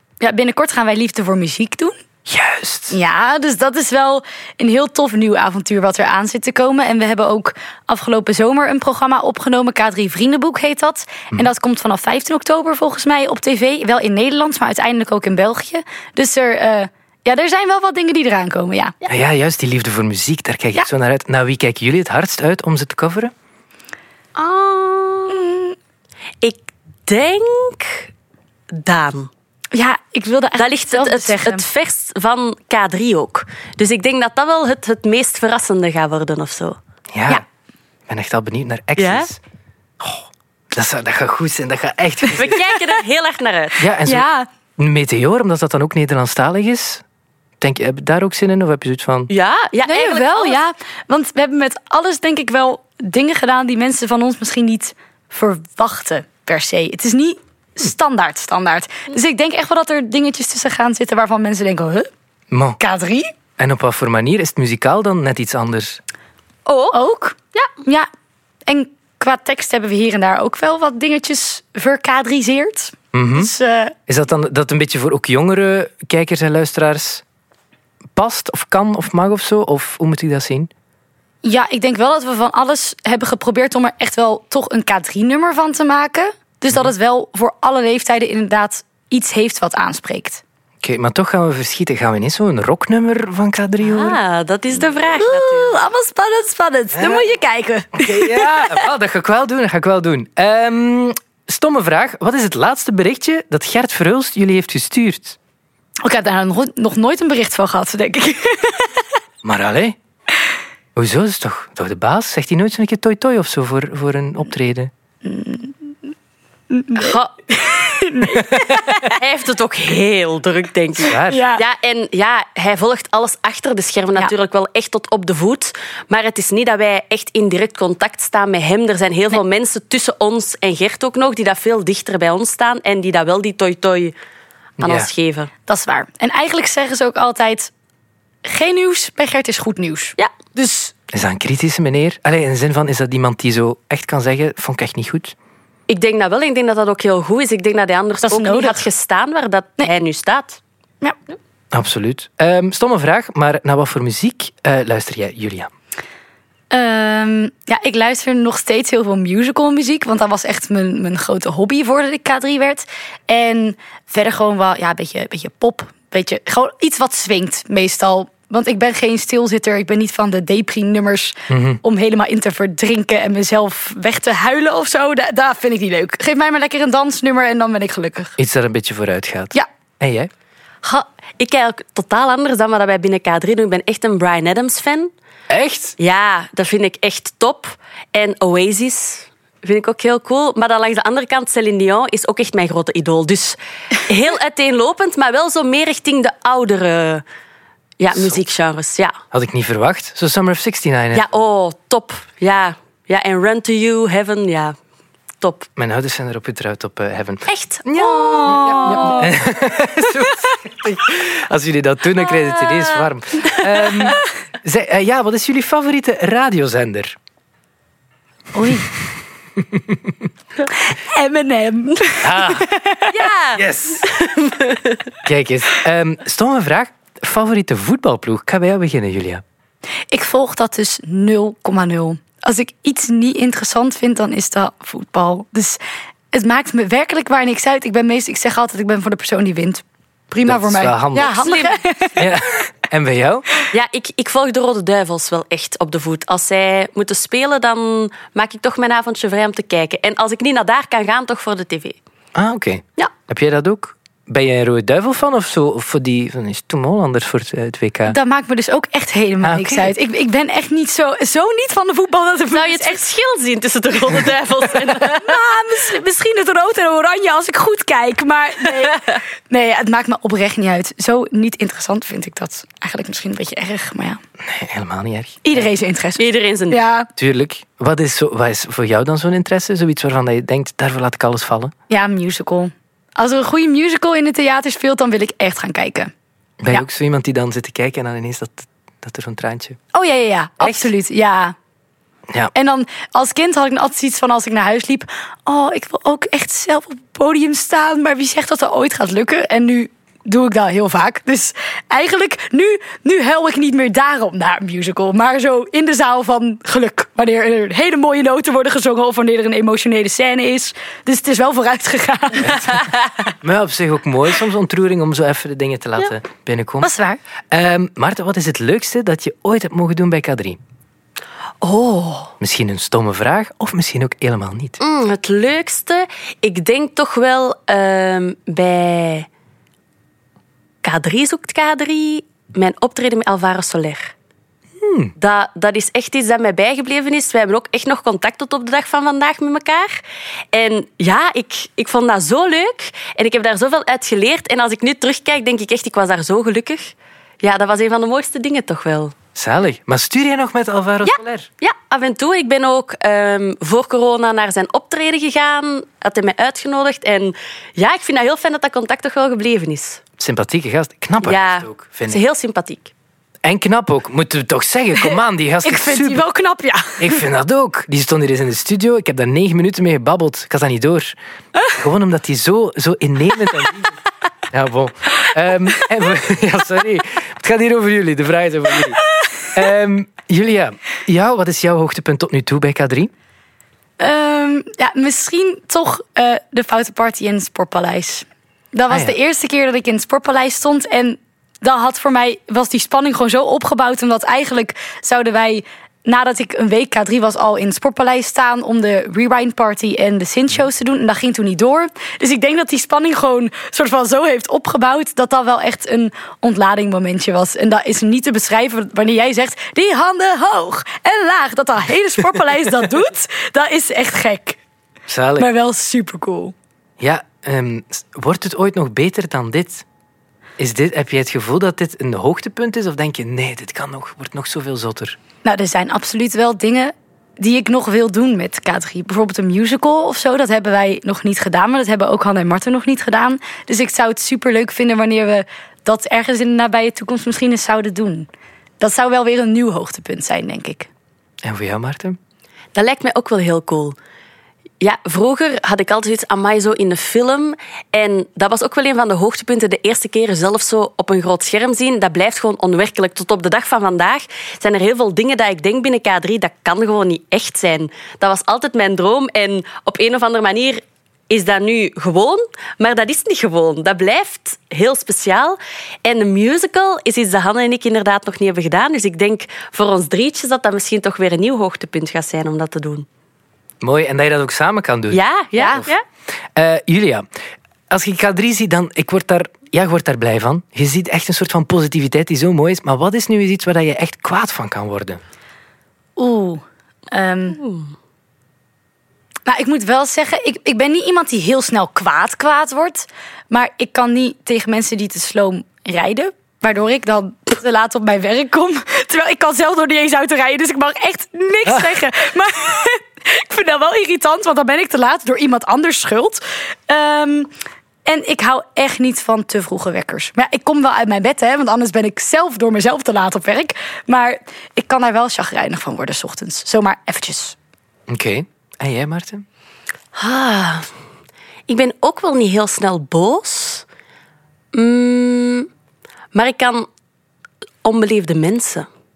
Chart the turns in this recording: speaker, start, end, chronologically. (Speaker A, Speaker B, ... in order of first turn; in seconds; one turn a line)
Speaker A: 0.2-2.0
Speaker B: 2.3-2.9
Speaker A: 2.9-18.9
Speaker B: 19.1-23.3
Speaker C: 24.4-25.5
Speaker A: 25.3-25.8
Speaker C: 26.4-28.1
Speaker C: 28.7-29.3
Speaker A: 29.7-31.6
Speaker C: 30.6-36.8
Speaker B: 37.1-37.4
Speaker B: 38.1-39.4
Speaker C: 39.0-39.3
Speaker B: 40.0-42.8
Speaker C: 42.3-43.9
Speaker B: 43.8-44.2
Speaker A: 44.1-44.5
Speaker B: 44.8-47.0
Speaker B: 47.6-49.3
Speaker C: 49.3-50.6
Speaker A: 49.9-62.1
Speaker B: 62.5-62.8
Speaker A: 62.8-63.3
Speaker B: 63.6-66.0
Speaker C: 66.7-67.0
Speaker A: 66.9-68.1
Speaker A: 68.7-73.9
Speaker B: 73.1-73.5
Speaker B: 74.1-77.2
Speaker B: 78.1-80.7
Speaker A: 81.4-90.4
Speaker B: 90.8-94.2
Speaker C: 93.8-95.8
Speaker A: 95.2-98.8
Speaker B: 96.9-97.2
Speaker B: 97.9-105.4
Speaker A: 106.0-109.0
Speaker B: 109.4-110.0
Speaker B: 110.9-114.9
Speaker A: 115.2-115.9
Speaker A: 116.7-119.2
Speaker C: 116.9-117.3
Speaker C: 119.0-134.1
Speaker B: 121.0-121.4
Speaker A: 121.2-121.6
Speaker B: 134.8-135.1
Speaker C: 134.8-135.5
Speaker A: 135.7-137.7
Speaker A: 138.4-140.9
Speaker B: 141.1-145.3
Speaker C: 145.9-150.6
Speaker A: 148.2-148.9
Speaker B: 151.7-155.7
Speaker A: 156.7-178.4
Speaker B: 171.5-171.8
Speaker B: 178.4-180.3
Speaker C: 180.8-185.1
Speaker B: 185.5-185.9
Speaker C: 186.0-197.2
Speaker C: 198.0-199.2
Speaker B: 199.3-201.2
Speaker C: 201.1-204.8
Speaker C: 205.4-205.7
Speaker B: 205.8-217.2
Speaker C: 207.5-209.3
Speaker A: 208.0-209.3
Speaker C: 212.3-214.1
Speaker A: 218.5-218.9
Speaker B: 219.6-220.1
Speaker A: 220.8-223.2
Speaker B: 222.2-222.7
Speaker C: 223.1-225.0
Speaker B: 223.6-224.1
Speaker B: 225.2-229.4
Speaker A: 230.1-235.8
Speaker A: 236.3-242.2
Speaker B: 240.4-241.5
Speaker C: 241.4-241.7
Speaker B: 242.2-243.4
Speaker C: 243.7-252.0
Speaker B: 252.3-258.2
Speaker A: 258.1-263.0
Speaker B: 259.4-259.9
Speaker C: 262.5-265.5
Speaker A: 265.1-274.2
Speaker C: 268.8-269.1
Speaker B: 274.4-275.7
Speaker A: 275.4-277.1
Speaker C: 276.2-276.8
Speaker B: 277.2-281.7
Speaker A: 281.9-286.1
Speaker B: 286.6-289.8
Speaker A: 289.9-291.6
Speaker B: 290.6-290.9
Speaker A: 292.5-312.9
Speaker B: 312.4-312.7
Speaker B: 313.4-316.9
Speaker A: 316.8-317.2
Speaker B: 317.5-320.6
Speaker C: 321.6-322.3
Speaker B: 322.4-324.8
Speaker C: 324.8-329.3
Speaker C: 330.8-334.1
Speaker B: 334.8-335.1
Speaker C: 335.2-340.0
Speaker C: 340.5-349.1
Speaker B: 349.3-351.5
Speaker C: 351.1-360.0
Speaker B: 360.2-362.2
Speaker C: 361.2-362.9
Speaker B: 363.4-366.2
Speaker A: 365.6-367.2
Speaker B: 367.0-371.2
Speaker B: 371.7-373.9
Speaker B: 374.5-383.1
Speaker A: 384.0-414.6
Speaker B: 388.9-389.2
Speaker B: 415.1-415.5
Speaker A: 415.4-416.6
Speaker B: 417.0-419.8
Speaker B: 420.6-425.2
Speaker A: 425.4-438.3
Speaker A: 438.8-440.9
Speaker B: 441.4-442.2
Speaker C: 442.7-443.9
Speaker C: 444.8-473.1
Speaker B: 473.8-475.9
Speaker C: 475.1-476.0
Speaker A: 475.6-475.9
Speaker B: 476.6-477.3
Speaker B: 477.9-485.2
Speaker A: 486.2-487.6
Speaker C: 487.6-487.9
Speaker A: 489.5-507.5
Speaker A: 508.1-517.6
Speaker B: 518.1-519.4
Speaker C: 520.1-520.9
Speaker C: 521.7-523.9
Speaker C: 524.7-525.7
Speaker C: 526.3-526.9
Speaker C: 527.8-528.9